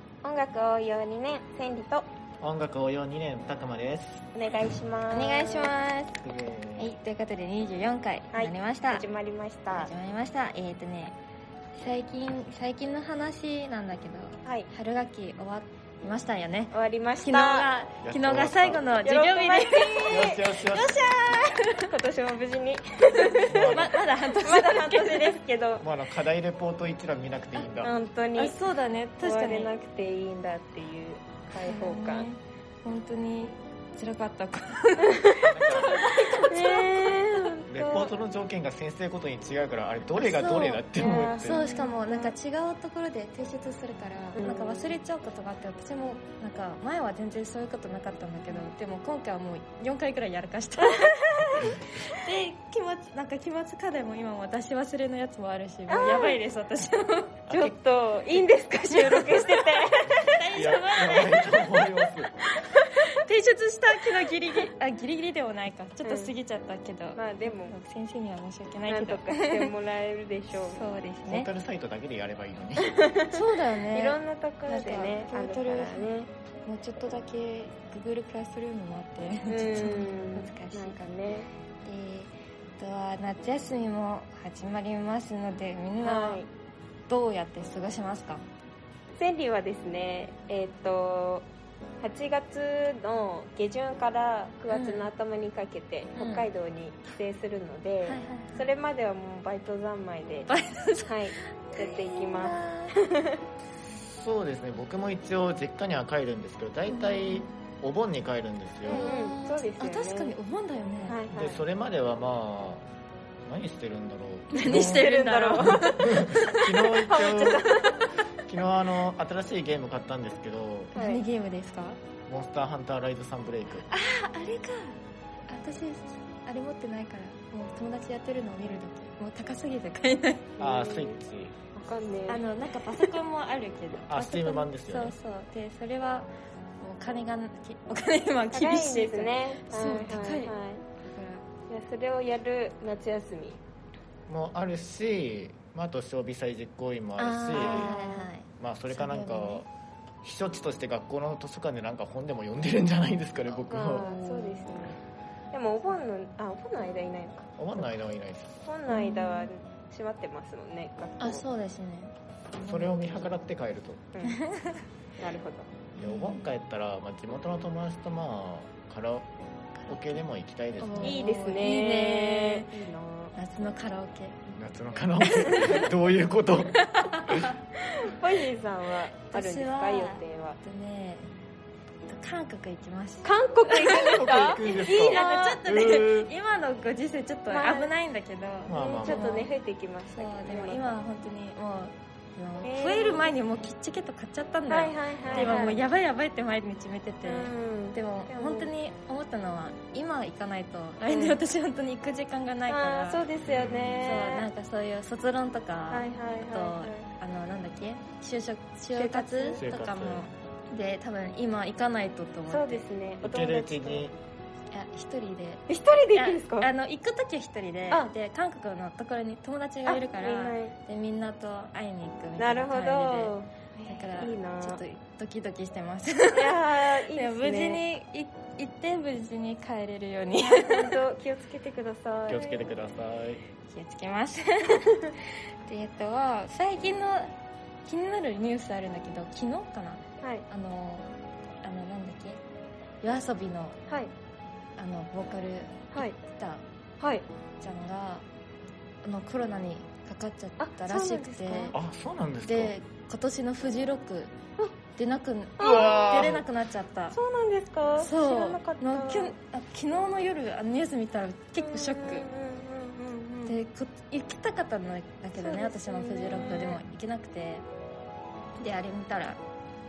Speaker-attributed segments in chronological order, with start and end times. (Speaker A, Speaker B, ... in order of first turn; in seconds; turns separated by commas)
Speaker A: 0.2-2.0, Speaker B: 2.4-4.2, Speaker A: 4.3-5.7, Speaker C: 5.1-6.2, Speaker B: 6.2-6.9, Speaker C: 6.8-9.0, Speaker A: 8.3-9.9, Speaker C: 9.7-11.1, Speaker C: 11.8-20.3, Speaker A: 16.7-17.7, Speaker B: 18.0-18.8, Speaker A: 19.0-23.7, Speaker B: 20.1-21.0, Speaker C: 20.9-21.9, Speaker C: 23.1-25.4, Speaker B: 23.4-23.9, Speaker A: 24.4-25.8, Speaker B: 25.8-27.9, Speaker A: 27.8-28.6, Speaker C: 28.4-29.7, Speaker A: 29.2-32.3, Speaker C: 31.6-37.6, Speaker A: 35.0-38.1, Speaker B: 35.4-36.0, Speaker B: 37.7-41.6, Speaker C: 40.1-57.5, Speaker A: 41.0-42.3, Speaker A: 44.4-44.8, Speaker A: 50.8-51.6, Speaker A: 55.9-56.4, Speaker B: 57.5-57.7, Speaker A: 57.5-60.6, Speaker C: 58.9-61.7, Speaker B: 60.5-62.3, Speaker A: 62.5-62.9, Speaker C: 62.8-69.7, Speaker A: 66.0-66.3, Speaker A: 67.2-67.7, Speaker A: 68.9-70.8, Speaker C: 70.7-71.5, Speaker B: 71.2-73.0, Speaker A: 72.8-76.3, Speaker C: 73.3-76.1, Speaker C: 76.7-81.0, Speaker A: 79.5-81.5, Speaker C: 81.8-86.4, Speaker A: 86.0-86.5, Speaker C: 87.1-88.5, Speaker A: 89.2-91.5, Speaker A: 92.0-100.5, Speaker C: 94.7-95.1, Speaker C: 96.2-96.5, Speaker C: 98.1-98.6, Speaker C: 100.5-101.2, Speaker A: 101.1-103.4, Speaker C: 101.7-102.9, Speaker B: 104.0-109.1, Speaker C: 106.9-107.5, Speaker A: 108.8-110.3, Speaker C: 108.9-111.2, Speaker A: 111.1-111.6, Speaker B: 111.3-112.8, Speaker B: 113.4-117.7, Speaker C: 114.5-116.6, Speaker A: 114.7-118.0, Speaker C: 117.6-118.2, Speaker B: 118.5-121.0, Speaker A: 121.0-121.2, Speaker C: 121.0-122.0, Speaker B: 122.3-123.9, Speaker C: 123.9-125.0, Speaker C: 125.5-130.5, Speaker A: 130.6-131.2, Speaker B: 130.6-131.6, Speaker A: 131.7-132.4, Speaker C: 132.3-136.3, Speaker B: 134.1-135.1, Speaker C: 136.8-141.4, Speaker A: 138.5-140.8, Speaker A: 141.7-143.6, Speaker B: 144.3-147.9, Speaker C: 147.2-149.6, Speaker A: 147.5-148.3, Speaker B: 148.6-149.7, Speaker B: 150.2-154.1, Speaker A: 153.7-155.0, Speaker C: 153.9-154.8, Speaker A: 155.5-157.8, Speaker B: 157.6-158.6, Speaker A: 158.7-161.4, Speaker C: 158.9-159.5, Speaker C: 161.2-163.4, Speaker B: 162.7-164.1, Speaker A: 164.1-164.4, Speaker C: 164.2-164.8, Speaker A: 165.2-165.7, Speaker C: 165.9-166.5, Speaker B: 166.0-169.3, Speaker C: 169.8-170.2, Speaker B: 169.9-171.2, Speaker C: 170.8-172.7, Speaker A: 171.0-173.3, Speaker C: 173.3-174.4, Speaker B: 174.5-177.5, Speaker C: 175.3-175.9, Speaker C: 176.8-177.6, Speaker A: 177.8-180.6, Speaker C: 179.3-181.3, Speaker C: 182.1-189.5, Speaker A: 183.2-185.6, Speaker B: 184.0-186.3, Speaker A: 187.5-187.9, Speaker B: 188.7-189.3, Speaker A: 188.7-190.9, Speaker C: 190.1-203.2, Speaker A: 192.6-193.4, Speaker A: 194.7-195.8, Speaker B: 195.2-195.6, Speaker A: 197.2-198.7, Speaker A: 201.1-201.4, Speaker A: 202.7-204.4, Speaker B: 203.4-204.2, Speaker C: 204.0-212.8, Speaker A: 205.9-207.1, Speaker A: 208.9-209.6, Speaker B: 209.6-210.2, Speaker A: 212.5-214.1, Speaker B: 213.2-214.2, Speaker C: 214.7-223.3, Speaker A: 215.7-216.7, Speaker A: 219.9-220.7, Speaker A: 222.4-224.8, Speaker C: 223.9-231.0, Speaker A: 226.3-227.8, Speaker A: 230.5-232.6, Speaker B: 232.3-233.4, Speaker C: 233.7-237.3, Speaker C: 237.8-241.1, Speaker A: 240.2-240.4, Speaker C: 241.6-242.4, Speaker C: 243.0-243.8, Speaker C: 244.8-246.6, Speaker A: 247.0-247.2, Speaker C: 247.6-248.2, Speaker C: 249.0-251.7, Speaker A: 250.6-251.8, Speaker B: 251.7-252.7, Speaker C: 252.4-254.3, Speaker C: 254.9-257.2, Speaker B: 255.6-256.4, Speaker A: 255.6-256.3, Speaker A: 257.1-259.3, Speaker C: 258.0-262.2, Speaker A: 261.6-263.6, Speaker C: 263.4-267.6, Speaker A: 265.4-266.8, Speaker C: 268.6-269.4